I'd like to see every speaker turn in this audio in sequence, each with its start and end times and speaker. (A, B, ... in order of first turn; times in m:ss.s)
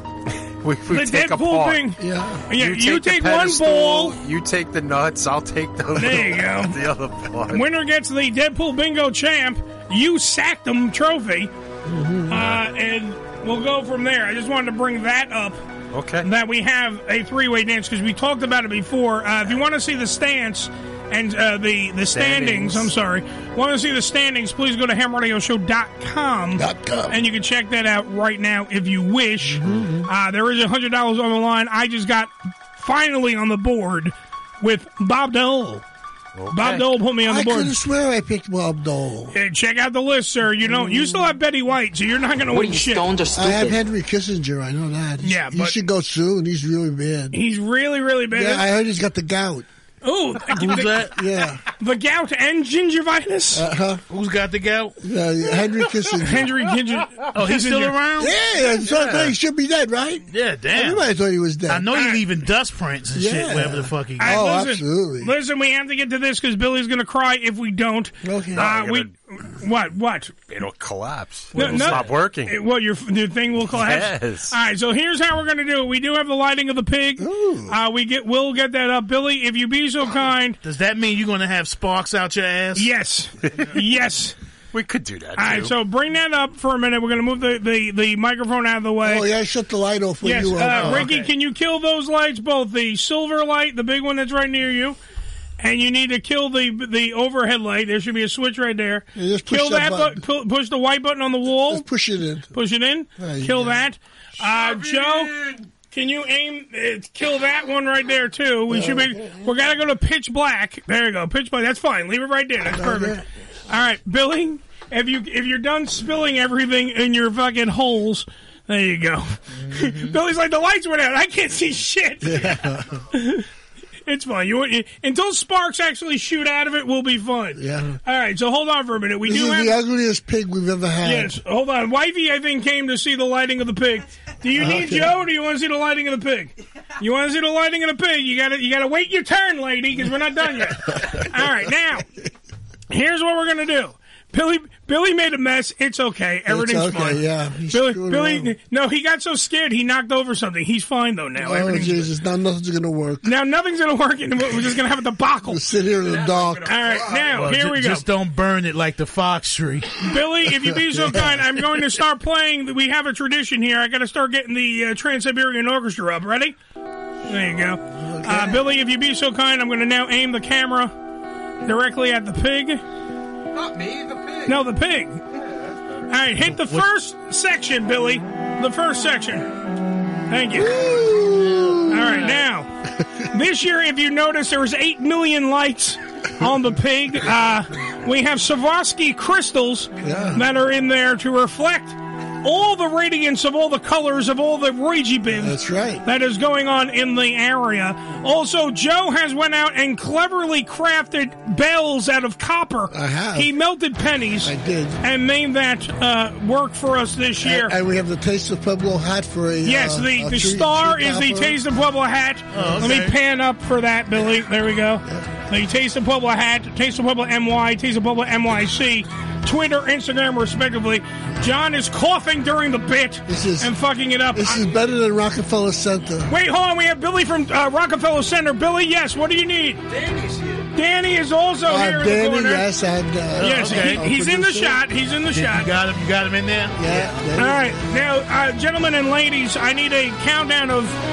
0:00.6-0:01.9 A
0:00.9-0:04.2 B
0:02.0-0:02.5 C
0:02.6-0:07.6 A
0:06.0-0:06.8 B
0:07.5-0:11.5 B
0:11.8-0:12.5 C
0:12.3-0:15.6 B
0:15.9-0:16.3 A
0:16.2-0:35.8 B
0:22.1-0:22.9 A
0:26.6-0:27.2 C
0:29.5-0:30.1 C
0:36.4-0:36.8 A
0:36.5-0:37.8 B
0:37.2-0:39.4 C
0:39.3-0:43.1 B
0:43.3-0:47.4 C
0:45.2-0:45.8 B
0:47.3-0:48.7 B
0:48.3-0:49.7 C
0:50.0-0:51.0 B
0:50.6-0:51.1 D
0:51.0-0:51.6 C
0:51.8-0:53.6 B
0:53.5-0:54.0 C
0:54.1-0:55.0 D
0:55.0-0:56.5 C
0:56.2-0:58.0 B
0:57.3-0:58.4 D
0:58.2-1:01.9 C
0:59.0-0:59.3 D
1:00.3-1:01.1 D
1:01.7-1:04.4 D
1:01.9-1:02.2 B
1:03.2-1:05.3 C
1:04.2-1:10.3 B
1:08.2-1:08.6 C
1:08.6-1:09.1 A
1:10.5-1:12.6 A
1:11.5-1:20.6 B
1:11.6-1:12.0 D
1:13.7-1:14.5 A
1:17.2-1:17.8 C
1:20.6-1:22.9 D
1:22.8-1:24.4 B
1:24.7-1:25.7 A
1:25.4-1:29.3 B
1:29.0-1:31.1 C
1:30.2-1:35.0 B
1:30.6-1:31.2 D
1:35.6-1:41.8 B
1:39.2-1:40.2 C
1:41.6-1:42.5 C
1:42.5-1:45.4 B
1:43.2-1:43.8 C
1:45.9-1:53.2 B
1:48.7-1:49.4 C
1:52.6-1:53.2 C
1:53.7-2:02.6 B
2:02.2-2:02.9 C
2:03.1-2:03.5 B
2:04.1-2:09.8 B
2:07.6-2:08.0 C
2:09.2-2:11.4 C
2:11.0-2:22.0 B
2:14.6-2:15.1 C
2:22.9-2:32.1 B
2:26.5-2:28.5 C
2:31.4-2:33.2 C
2:33.2-2:35.6 B
2:35.5-2:37.0 C
2:36.6-2:38.0 B
2:37.2-2:40.0 D
2:40.1-2:46.6 B
2:40.8-2:41.3 C
2:47.3-2:50.9 B
2:48.0-2:48.6 C
2:51.6-2:52.8 B
2:54.4-2:55.2 B
2:56.1-2:59.5 B
2:56.6-2:56.8 D
3:00.3-3:01.0 B
3:00.5-3:02.1 C
3:01.5-3:02.2 D
3:01.9-3:02.7 B
3:03.3-3:27.7 B
3:10.0-3:10.4 C
3:15.3-3:16.0 C
3:22.9-3:23.5 C
3:24.4-3:25.0 C
3:27.4-3:31.6 C
3:29.6-3:44.6 B
3:32.5-3:33.2 D
3:43.3-3:43.7 C
3:44.3-3:46.3 C
3:46.3-3:49.8 B
3:50.7-3:52.7 B
3:51.7-3:54.8 C
3:53.4-3:55.7 B
3:53.4-3:54.1 D
3:55.3-3:57.4 D
3:56.8-3:57.7 C
3:57.4-4:01.0 B